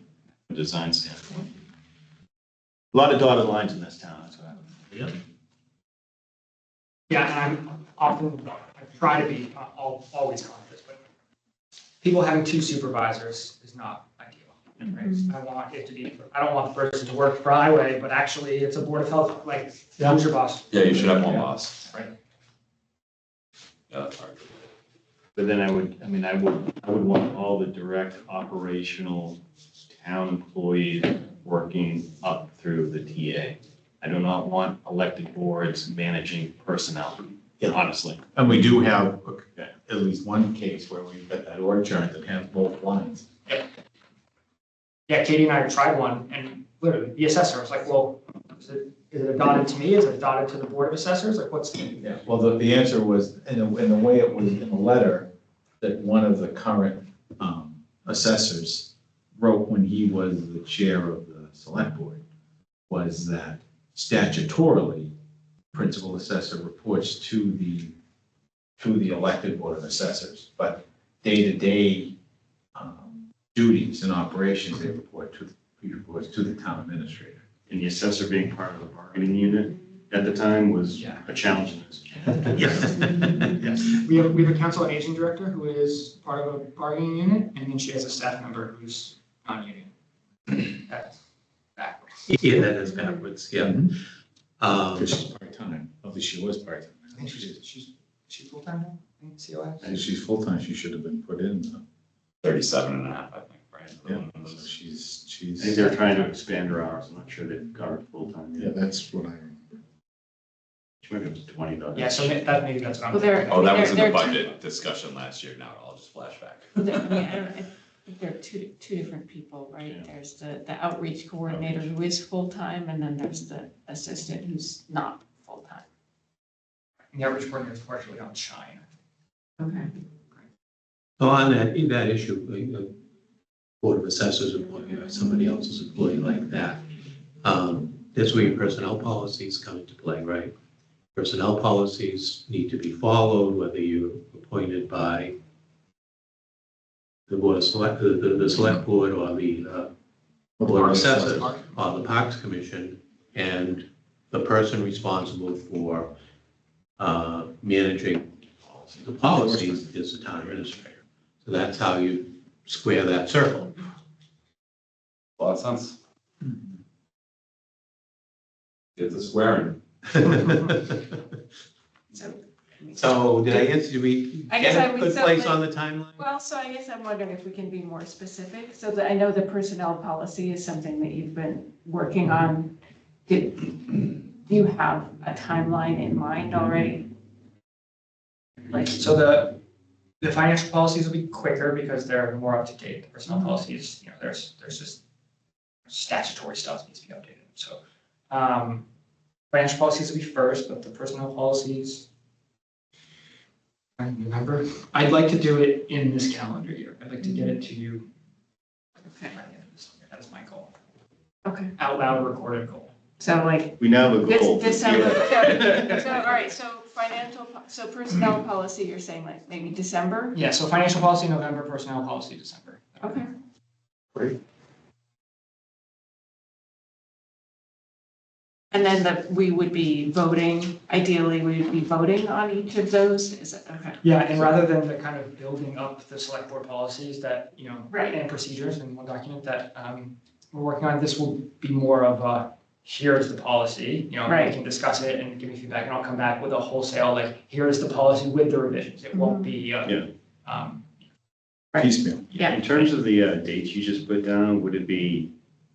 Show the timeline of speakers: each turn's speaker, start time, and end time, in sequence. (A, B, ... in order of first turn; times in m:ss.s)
0:00.5-0:01.4 A
0:02.9-0:05.1 A
0:07.1-0:11.0 B
0:12.0-0:21.9 B
0:14.8-0:15.3 C
0:20.7-0:21.8 D
0:23.9-0:24.7 D
0:25.4-0:38.2 A
0:38.3-0:43.2 E
0:45.1-0:52.0 B
0:52.0-1:02.2 E
1:02.9-1:05.1 E
1:05.7-1:07.9 E
1:08.8-1:12.1 E
1:12.7-1:17.4 E
1:17.7-1:23.1 A
1:20.9-1:21.3 B
1:22.6-1:23.4 F
1:23.6-1:23.9 A
1:23.9-1:29.9 B
1:30.5-1:31.2 B
1:31.8-1:32.4 B
1:32.2-1:33.9 F
1:33.6-1:33.9 E
1:34.6-1:35.1 F
1:35.0-1:37.6 E
1:37.1-1:39.9 B
1:39.8-1:41.8 E
1:42.4-1:44.6 D
1:44.0-1:45.9 E
1:45.6-1:48.7 A
1:48.6-1:49.6 E
1:51.0-1:52.6 A
1:51.9-1:53.9 B
1:53.1-1:54.5 C
1:53.5-1:57.2 D
1:56.8-2:05.8 C
1:59.8-2:00.1 A
2:01.5-2:01.9 A
2:07.1-2:08.8 B
2:09.6-2:09.9 C
2:11.2-2:12.9 F
2:13.8-2:16.8 F
2:17.4-2:20.5 F
2:21.1-2:25.3 F
2:27.3-2:29.9 F
2:30.6-2:31.6 E
2:30.6-2:36.1 F
2:37.0-2:43.8 F
2:45.4-2:45.9 D
2:49.0-2:49.8 D
2:50.1-2:51.1 F
2:52.1-2:53.6 C
2:52.9-2:56.2 F
2:54.5-2:55.6 C
2:56.2-3:02.7 C
3:03.3-3:07.1 C
3:08.7-3:09.0 C
3:09.0-3:09.6 B
3:10.2-3:15.0 B
3:15.9-3:18.8 B
3:19.5-3:22.1 B
3:24.0-3:28.1 B
3:27.2-3:27.5 C
3:29.0-3:29.4 C
3:29.3-3:30.7 B
3:31.4-3:31.7 C
3:31.8-3:32.9 B
3:33.2-3:40.4 C
3:33.8-3:36.3 A
3:40.3-3:43.2 B
3:43.0-3:43.3 C
3:48.7-3:54.1 C
3:54.0-4:10.9 B
3:57.9-3:58.2 C
4:04.2-4:04.6 C
4:09.1-4:09.6 C
4:11.7-4:12.7 C
4:11.8-4:12.2 E
4:12.4-4:15.3 A